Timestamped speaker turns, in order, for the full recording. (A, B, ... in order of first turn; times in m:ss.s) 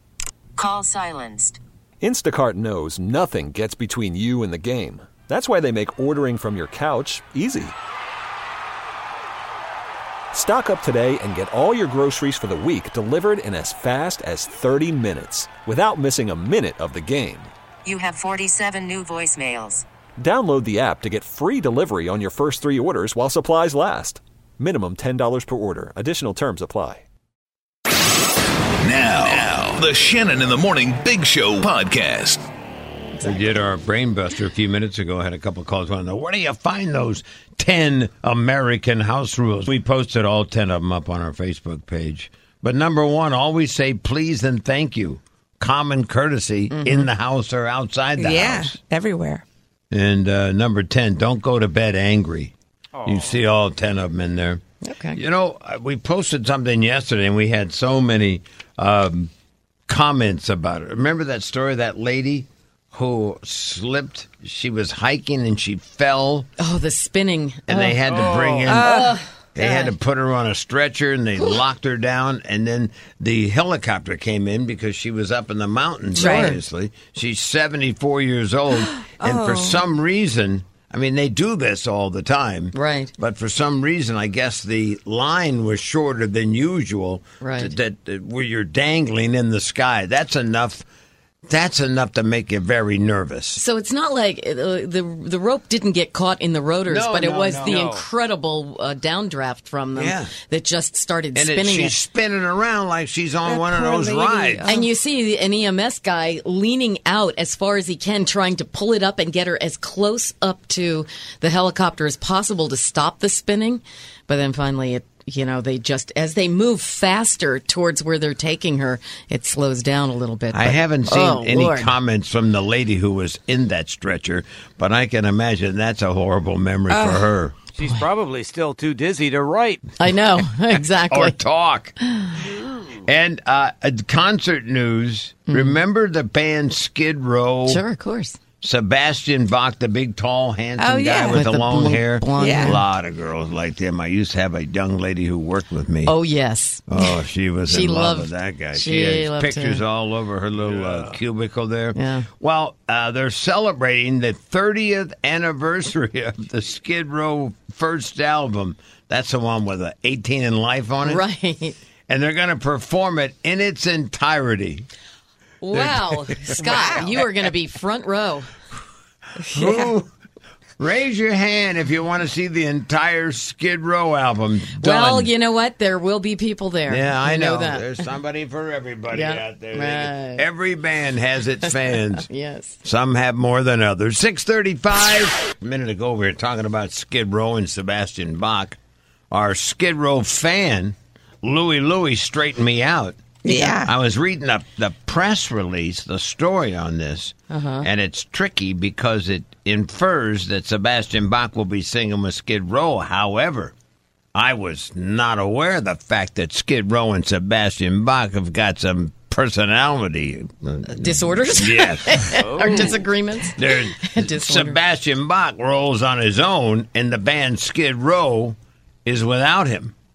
0:00.6-0:01.6 A
0:02.0-0:07.7 B
0:10.3-0:17.5 B
0:17.8-0:19.8 A
0:20.2-0:27.0 B
0:28.8-0:32.4 C
0:33.2-0:33.5 D
0:33.2-0:48.8 E
0:46.7-0:47.1 D
0:48.2-0:49.4 F
0:49.9-0:54.6 E
0:53.0-0:53.3 G
0:54.8-0:55.2 D
0:55.1-0:59.3 E
0:59.9-1:06.5 E
1:06.6-1:09.9 D
1:07.7-1:08.9 E
1:08.7-1:09.1 F
1:09.5-1:30.8 E
1:16.1-1:16.6 D
1:19.2-1:19.8 F
1:22.7-1:23.1 D
1:27.4-1:27.7 D
1:31.5-1:33.6 E
1:33.6-1:42.0 D
1:36.9-1:37.9 E
1:37.7-1:38.0 G
1:39.9-1:40.3 E
1:41.3-1:44.7 E
1:43.4-1:44.8 F
1:44.6-2:01.9 D
2:00.5-2:07.6 E
2:06.9-2:07.3 F
2:07.8-2:09.8 G
2:10.0-2:11.4 D
2:10.8-2:12.0 E
2:12.1-2:12.3 D
2:12.8-2:17.8 E
2:15.5-2:15.8 D
2:17.7-2:18.4 D
2:18.6-2:26.2 E
2:20.8-2:21.4 F
2:21.3-2:22.8 D
2:22.4-2:22.8 F
2:26.0-2:29.8 D
2:26.9-2:41.2 E
2:31.9-2:32.2 D
2:41.0-2:41.8 D
2:42.1-2:44.9 E
2:45.6-2:48.5 D
2:45.7-2:47.2 E
2:49.5-2:50.1 E
2:50.8-2:55.3 E
2:54.8-2:57.9 D
2:56.9-3:02.2 E
2:59.1-3:00.4 D
3:02.1-3:02.8 D
3:02.8-3:08.8 E
3:09.3-3:23.7 E
3:13.4-3:13.9 F
3:17.5-3:17.9 D
3:24.3-3:32.9 E
3:30.9-3:34.8 D
3:32.4-3:32.7 G
3:33.5-3:39.9 E